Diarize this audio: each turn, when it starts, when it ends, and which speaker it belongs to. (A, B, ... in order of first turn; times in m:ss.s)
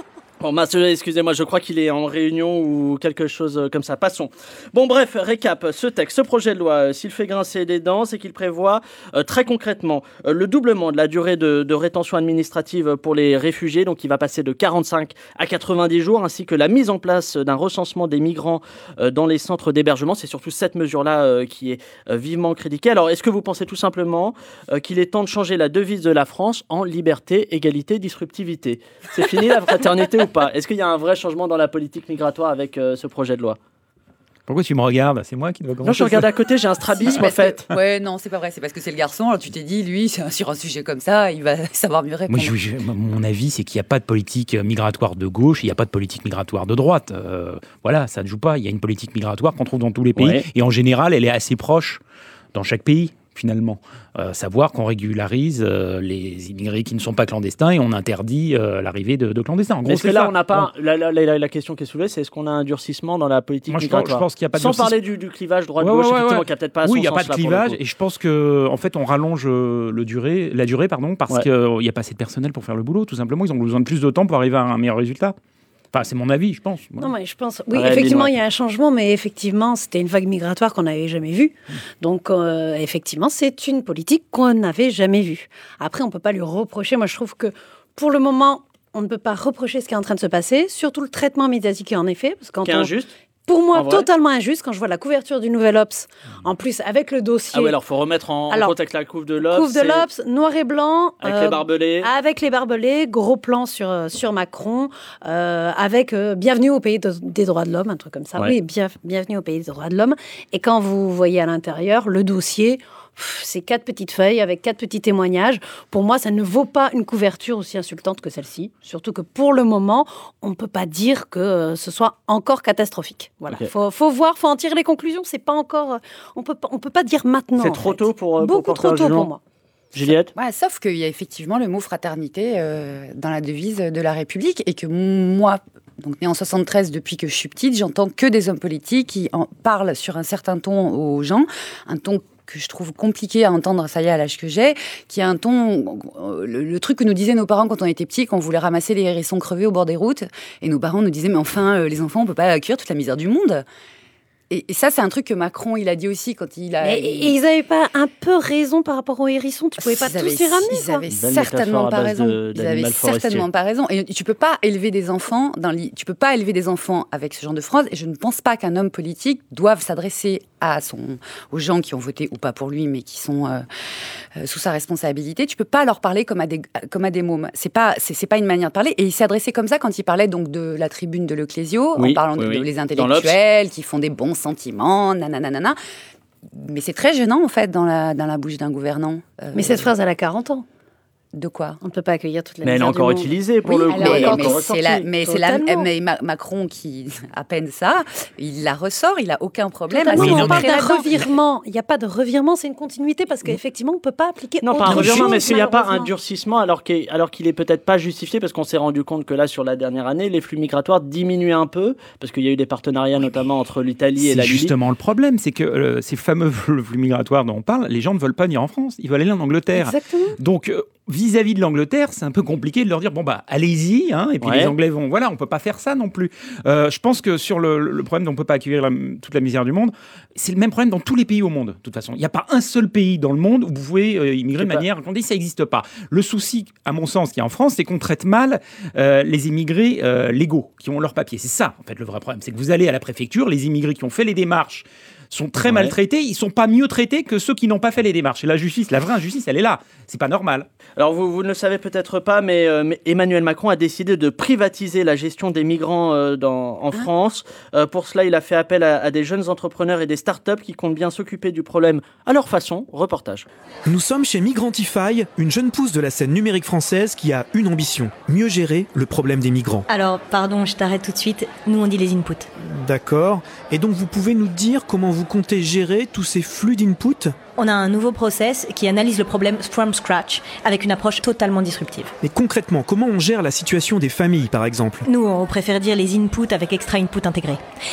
0:00.4-0:33.6 A
0:34.5-0:36.3 B
0:35.8-0:37.7 A
0:37.0-0:42.5 C
0:42.3-0:52.0 B
0:50.2-0:50.4 A
0:52.5-1:00.7 B
0:59.9-1:07.8 A
1:03.7-1:04.9 B
1:05.8-1:15.3 B
1:15.9-1:17.1 B
1:17.0-1:32.9 D
1:17.7-1:18.3 A
1:32.6-1:33.1 A
1:33.4-1:37.7 D
1:33.7-1:34.1 A
1:37.5-1:40.0 A
1:39.4-2:09.4 D
1:41.2-1:42.1 A
2:07.6-2:09.3 A
2:09.9-2:10.3 A
2:10.3-2:33.6 C
2:34.5-2:37.3 C
2:36.8-2:41.0 D
2:39.8-2:53.6 C
2:41.1-2:43.5 A
2:54.4-3:05.8 C
3:02.0-3:03.4 A
3:06.5-3:09.9 C
3:09.5-3:10.6 D
3:11.3-3:11.8 C
3:11.8-3:15.9 D
3:12.6-3:14.7 A
3:13.9-3:21.1 C
3:19.9-3:26.1 D
3:20.2-3:20.6 B
3:24.6-3:34.7 A
3:24.9-3:25.3 B
3:34.2-4:10.7 B
3:39.7-3:40.4 D
3:44.4-3:44.7 A
3:54.6-3:54.8 A
4:05.6-4:05.9 A
4:11.0-4:23.5 A
4:23.8-4:29.8 E
4:29.9-4:32.5 F
4:32.6-4:37.3 E
4:37.5-4:42.1 F
4:42.2-4:45.0 E
4:45.0-4:47.6 F